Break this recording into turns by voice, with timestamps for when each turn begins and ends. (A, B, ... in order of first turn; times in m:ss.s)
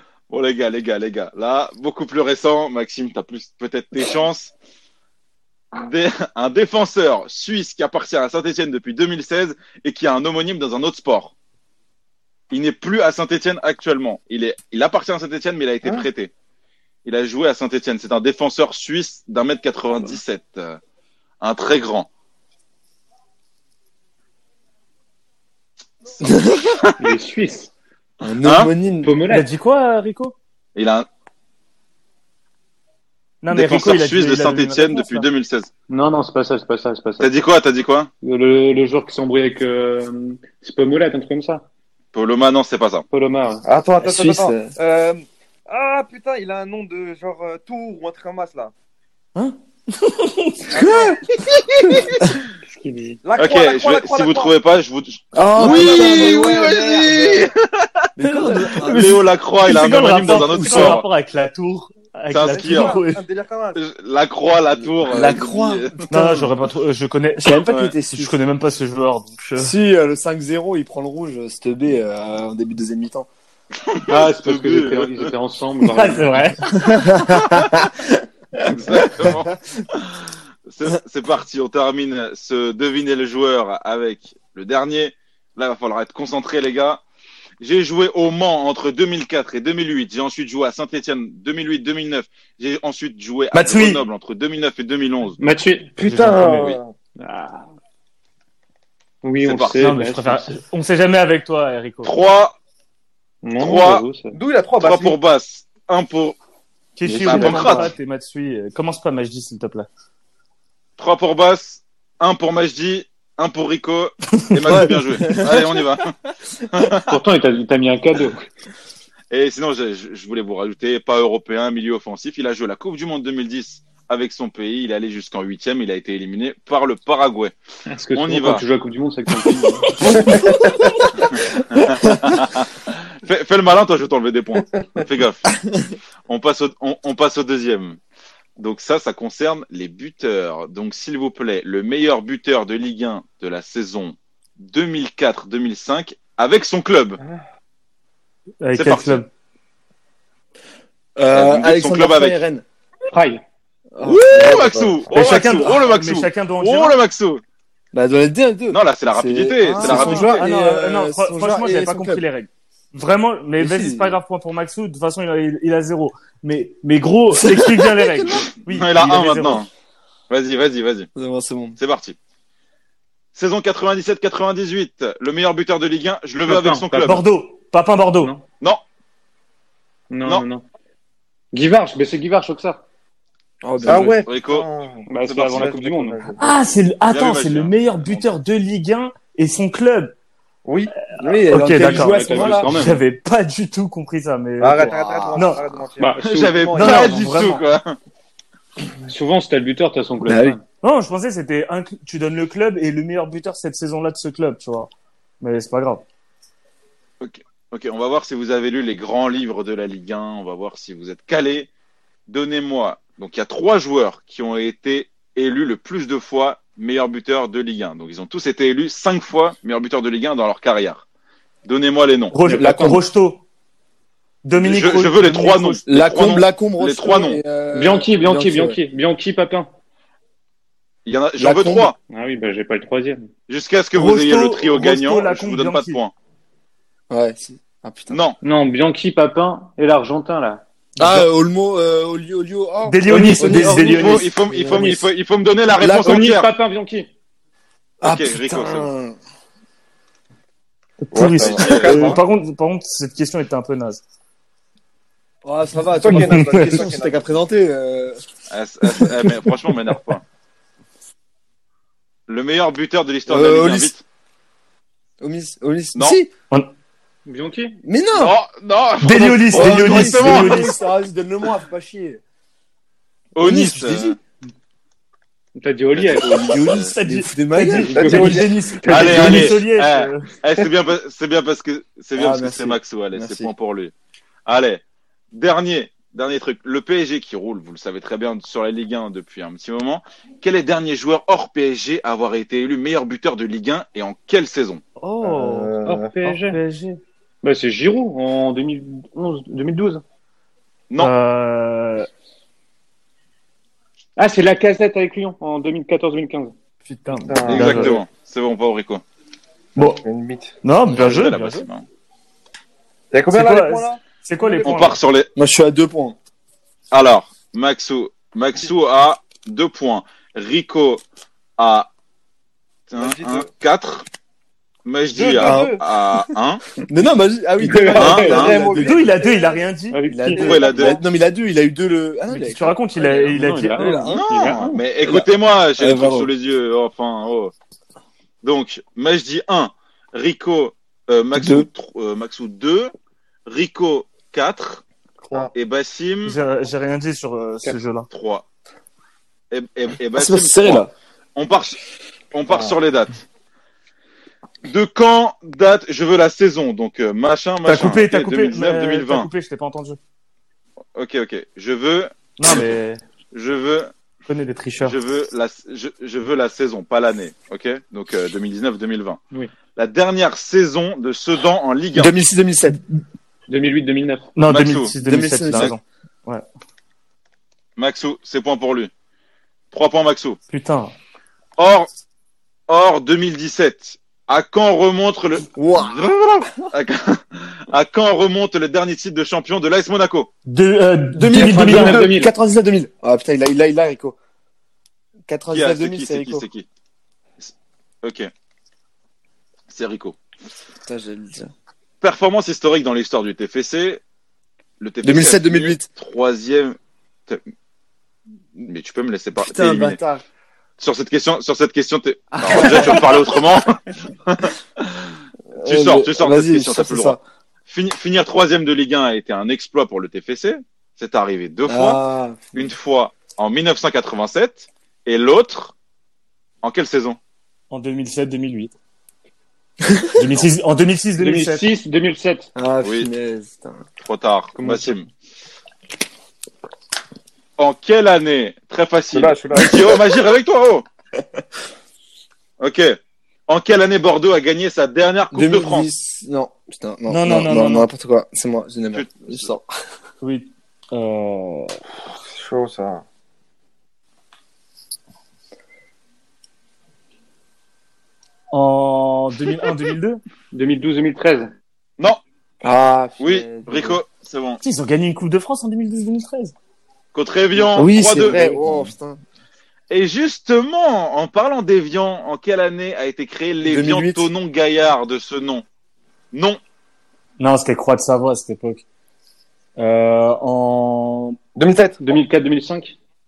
0:00.3-0:04.5 A
0:05.7-0:11.3 A
0:12.5-0:16.3 A
0:17.0-0:20.8 A
0:21.4-0:22.1 A
0:26.2-0:26.7 B
0:27.0-0:27.7 C
0:28.2-0:29.1 B
0:28.4-0:28.7 A
0:29.0-0:29.5 C
0:29.3-0:30.3 D
0:30.8-0:31.1 A
0:33.4-0:35.3 D
0:33.5-0:35.7 A
0:35.9-0:37.3 C
0:37.2-0:38.1 A
0:38.2-0:41.6 C
0:42.1-0:43.0 A
0:43.1-0:43.6 C
0:43.6-0:48.7 E
0:44.0-0:44.7 B
0:49.4-0:50.8 D
0:50.7-0:51.2 E
0:50.8-0:52.3 A
0:52.6-0:53.2 C
0:53.2-0:54.5 E
0:53.4-0:58.0 A
0:55.3-0:57.5 B
0:55.6-0:56.4 E
0:58.2-0:59.2 B
0:58.2-1:03.2 D
0:58.8-1:01.0 A
1:00.3-1:01.0 B
1:02.3-1:03.0 A
1:02.5-1:03.8 E
1:03.7-1:06.0 A
1:05.0-1:06.5 B
1:06.1-1:09.7 D
1:07.4-1:08.3 B
1:09.6-1:13.3 B
1:13.8-1:15.3 A
1:14.1-1:16.5 C
1:15.9-1:16.8 D
1:16.8-1:18.0 B
1:17.2-1:17.7 A
1:18.6-1:27.0 A
1:18.8-1:19.4 B
1:27.6-1:35.4 A
1:33.5-1:34.0 D
1:35.4-1:35.9 C
1:36.0-1:36.9 E
1:36.0-1:36.7 D
1:36.5-1:36.8 A
1:37.2-1:37.7 C
1:39.2-1:40.6 C
1:39.4-1:39.8 A
1:39.8-1:42.1 D
1:42.0-1:42.6 A
1:43.4-1:44.4 C
1:43.6-1:44.0 A
1:44.3-1:45.2 E
1:44.8-1:46.4 A
1:47.0-1:49.9 D
1:47.0-1:47.9 C
1:47.2-1:47.9 A
1:51.0-1:56.1 A
1:54.6-1:55.8 B
1:56.7-1:57.1 A
1:57.0-1:58.4 C
1:59.3-2:07.5 A
2:07.9-2:10.4 C
2:08.1-2:08.6 A
2:10.0-2:10.5 A
2:11.2-2:15.6 A
2:16.3-2:18.0 A
2:18.6-2:27.2 A
2:28.6-2:29.3 D
2:28.7-2:29.2 A
2:31.2-2:32.6 B
2:31.3-2:32.4 A
2:33.1-2:33.4 C
2:34.0-2:35.0 B
2:34.0-2:37.4 A
2:35.1-2:37.0 D
2:37.9-2:42.2 B
2:38.7-2:40.5 A
2:39.8-2:49.6 D
2:43.6-2:44.2 B
2:47.3-2:48.4 B
2:48.7-2:49.7 A
2:50.3-2:51.1 A
2:51.1-2:51.8 B
2:51.8-2:52.2 A
2:53.3-2:57.2 A
2:56.4-2:57.2 C
2:57.0-2:58.3 D
3:00.1-3:00.6 C
3:01.5-3:02.8 C
3:03.6-3:04.2 B
3:03.8-3:04.7 A
3:03.8-3:06.4 E
3:05.1-3:06.3 C
3:05.2-3:05.7 A
3:06.4-3:10.1 D
3:07.1-3:08.2 A
3:10.6-3:10.9 E
3:11.2-3:12.8 B
3:11.4-3:15.6 D
3:11.6-3:13.0 C
3:14.6-3:17.3 E
3:15.0-3:15.4 B
3:16.0-3:16.6 C
3:16.2-3:18.0 A
3:16.7-3:17.6 D
3:19.1-3:20.6 C
3:20.2-3:20.6 B
3:20.8-3:26.0 D
3:27.2-3:31.7 A
3:32.3-3:41.0 A
3:41.6-3:42.4 A
3:42.3-3:43.4 D
3:42.4-3:42.8 C
3:42.5-3:43.0 B
3:44.4-3:45.8 D
3:44.5-3:47.4 A
3:45.9-3:48.8 B
3:47.7-3:49.7 C
3:51.0-3:51.9 A
3:51.4-3:51.9 B
3:52.1-3:53.3 C
3:53.5-3:56.1 A
3:53.9-3:56.0 D
3:57.1-3:58.2 B
3:58.1-3:58.4 A
3:58.4-4:00.6 C
4:01.0-4:05.1 B
4:01.0-4:01.2 D
4:02.8-4:04.3 D
4:03.6-4:06.5 A
4:05.8-4:06.3 B
4:05.8-4:07.1 C
4:08.0-4:09.2 B
4:08.0-4:08.9 A
4:11.0-4:14.0 D
4:11.1-4:12.2 E
4:11.3-4:12.2 A
4:15.4-4:18.2 B
4:15.9-4:17.2 E
4:16.0-4:16.8 D
4:18.5-4:20.2 A
4:22.3-4:24.0 A
4:23.3-4:23.9 B
4:25.2-4:26.3 B
4:27.2-4:27.8 C
4:27.8-4:28.4 B
4:28.2-4:30.7 A
4:29.0-4:30.8 D
4:29.5-4:32.2 B
4:33.3-4:34.2 A
4:33.4-4:34.2 B
4:35.6-4:36.6 C
4:35.9-4:36.9 A
4:36.2-4:39.6 B
4:36.4-4:40.3 D
4:37.7-4:39.0 C
4:38.8-4:43.9 A
4:42.2-4:43.5 B
4:44.4-4:54.8 A
4:55.0-4:57.0 D
4:55.2-4:56.1 E
4:55.8-4:56.6 C
4:57.4-5:00.0 C
5:01.0-5:02.1 D
5:04.2-5:06.5 C
5:06.9-5:08.0 D
5:07.1-5:08.0 E
5:07.4-5:09.0 A
5:09.8-5:10.0 D
5:09.8-5:10.6 E
5:10.6-5:11.7 D
5:10.8-5:11.8 A
5:13.1-5:14.9 E
5:13.3-5:15.0 D
5:14.6-5:15.3 A
5:15.4-5:16.2 B
5:16.9-5:21.0 A
5:21.6-5:21.9 A
5:22.9-5:24.0 A
5:22.9-5:23.5 E
5:24.8-5:26.6 A
5:25.1-5:25.8 E
5:25.4-5:25.8 B
5:26.9-5:29.2 B
5:27.6-5:28.2 C
5:27.8-5:29.6 E
5:28.0-5:28.6 A
5:28.8-5:30.0 D
5:29.9-5:30.5 C
5:30.1-5:32.8 B
5:30.4-5:31.0 E
5:30.4-5:31.0 A
5:32.3-5:34.2 D
5:33.0-5:34.8 C
5:33.8-5:34.2 B
5:34.1-5:37.5 A
5:35.0-5:36.3 B
5:38.4-5:42.9 A
5:41.3-5:41.7 B
5:43.4-5:44.8 A
5:45.5-5:46.4 A
5:46.2-5:48.1 D
5:48.1-5:48.4 A
5:49.5-5:50.8 A
5:50.1-5:50.9 B
5:51.3-5:51.8 A
5:52.3-5:53.2 A
5:52.5-5:52.8 E
5:54.6-5:59.3 A
5:57.6-6:00.0 D
6:01.0-6:02.7 A
6:02.4-6:03.0 D
6:03.3-6:03.9 A
6:04.3-6:05.0 D
6:04.8-6:09.2 A
6:09.8-6:12.1 A
6:11.9-6:12.8 B
6:13.5-6:14.3 C
6:14.4-6:16.4 D
6:14.5-6:14.9 A
6:15.0-6:15.7 B
6:17.8-6:18.9 A
6:19.7-6:20.4 A
6:20.5-6:20.9 D
6:21.6-6:21.9 A
6:22.7-6:30.3 A
6:25.5-6:26.0 B
6:30.5-6:32.1 D
6:31.2-6:34.2 B
6:31.2-6:32.3 C
6:35.3-6:36.4 B
6:35.5-6:36.7 A
6:37.4-6:38.3 A
6:39.7-6:40.2 A
6:40.8-6:41.5 B
6:42.0-6:44.0 A
6:44.8-6:47.4 A
6:45.0-6:45.9 B
6:48.6-6:50.0 A
6:49.4-6:50.2 B
6:50.8-7:02.0 A
6:52.4-6:53.2 B
6:55.5-6:57.2 B
7:01.7-7:02.7 B
7:02.5-7:05.7 A
7:06.6-7:07.2 A
7:07.7-7:08.7 D
7:09.8-7:10.3 B
7:10.2-7:11.6 D
7:11.2-7:12.5 C
7:12.6-7:13.8 B
7:12.8-7:13.1 A
7:14.0-7:15.1 A
7:14.6-7:15.0 C
7:17.6-7:20.8 A
7:19.1-7:20.0 E
7:22.6-7:25.9 A
7:25.3-7:29.6 B
7:27.1-7:27.9 D
7:28.9-7:29.5 A
7:30.2-7:31.8 D
7:32.3-7:33.0 E
7:38.5-7:40.2 D
7:40.5-7:41.5 C
7:42.6-7:44.0 B
7:43.2-7:44.6 A
7:44.6-7:46.5 D
7:47.1-7:48.4 A
7:47.7-7:49.2 B
7:48.2-7:48.9 C
7:49.9-7:55.6 A
7:53.6-7:54.3 B
7:56.3-7:56.6 A
7:57.4-7:58.8 D
7:59.8-8:01.4 D
8:01.6-8:02.0 E
8:02.0-8:03.0 C